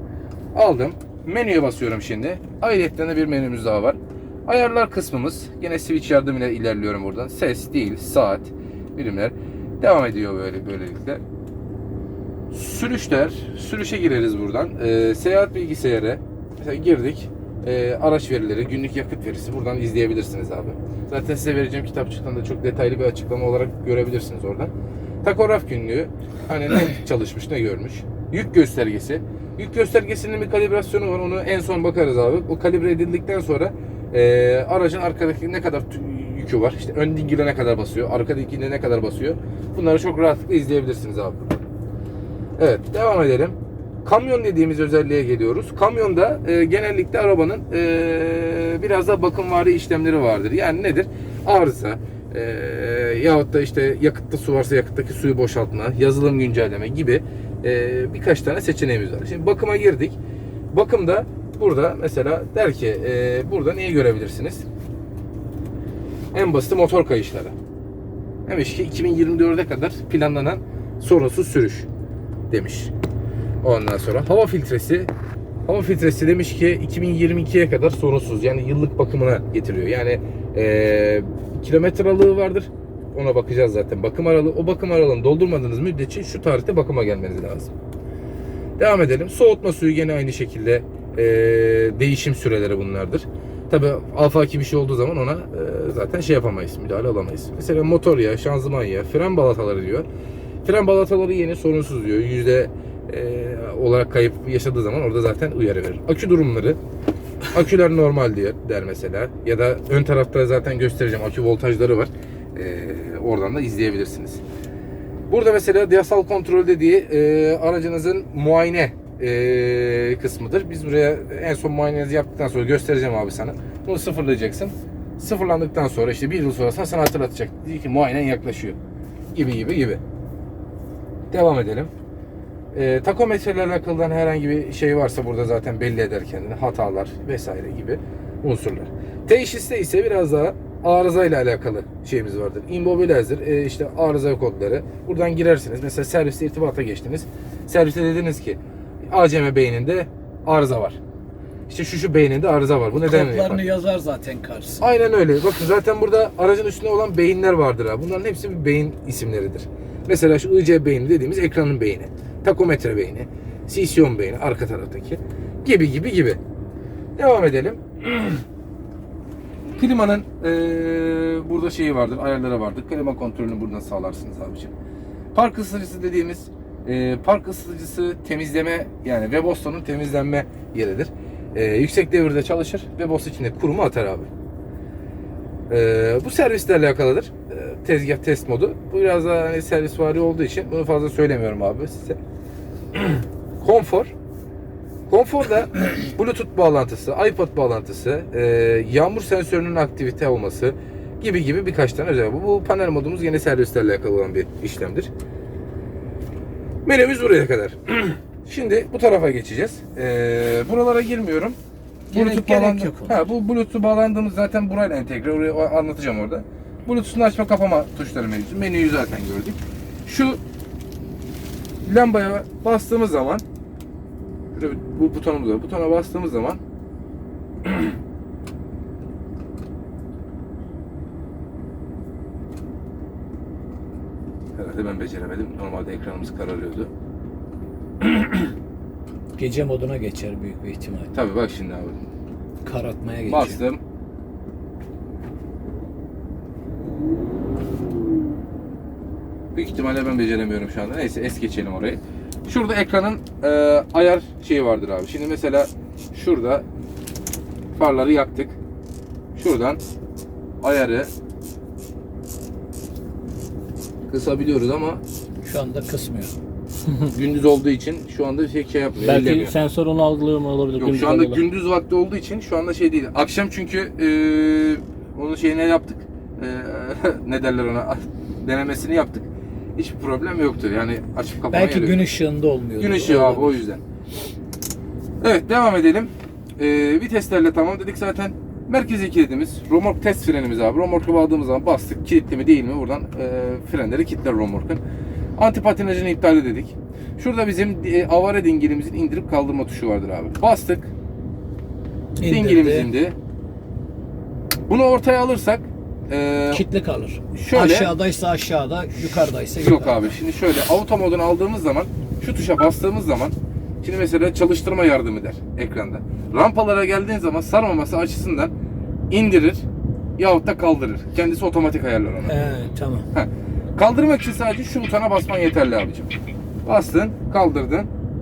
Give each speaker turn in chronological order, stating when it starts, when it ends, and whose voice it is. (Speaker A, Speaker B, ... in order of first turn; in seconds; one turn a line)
Speaker A: 0.6-11.2
Speaker A: 12.5-24.7
Speaker A: 25.2-41.6
Speaker A: 42.6-60.2
Speaker A: 60.7-64.7
Speaker A: 66.3-67.5
Speaker A: 68.5-71.9
Speaker A: 72.5-72.9
Speaker A: 73.6-75.1
Speaker A: 75.7-87.7
Speaker A: 88.8-100.1
Speaker A: 100.6-106.8
Speaker A: 107.5-114.4
Speaker A: 115.3-128.8
Speaker A: 129.3-130.0
Speaker A: 131.3-131.9
Speaker A: 132.7-151.0
Speaker A: 151.7-153.6
Speaker B: 153.0-154.8
Speaker A: 154.8-166.4
Speaker A: 167.2-168.4
Speaker A: 169.8-174.7
Speaker A: 175.3-184.3
Speaker A: 185.7-192.2
Speaker A: 192.9-194.1
Speaker A: 195.1-205.1
Speaker A: 206.8-211.6
Speaker B: 212.1-213.3
Speaker A: 212.1-220.4
Speaker A: 221.8-223.4
Speaker A: 224.5-226.6
Speaker A: 227.6-227.9
Speaker A: 234.6-236.9
Speaker A: 238.0-238.4
Speaker B: 239.4-241.1
Speaker A: 241.1-242.0
Speaker B: 242.6-243.6
Speaker A: 243.2-243.8
Speaker A: 249.6-256.6
Speaker A: 257.7-258.6
Speaker A: 259.4-259.8
Speaker A: 260.6-261.1
Speaker A: 264.1-265.0
Speaker B: 265.4-266.3
Speaker A: 267.1-269.5
Speaker C: 269.0-271.4
Speaker A: 270.8-282.1
Speaker B: 281.5-283.6
Speaker A: 282.8-283.8
Speaker A: 285.2-294.8
Speaker A: 295.4-300.9
Speaker B: 302.2-302.9
Speaker A: 302.2-303.1
Speaker A: 304.7-306.6
Speaker B: 306.5-310.1
Speaker A: 307.3-307.9
Speaker A: 309.6-318.5
Speaker A: 319.1-319.6
Speaker A: 320.2-322.4
Speaker B: 322.3-323.1
Speaker A: 323.1-326.1
Speaker A: 326.6-327.9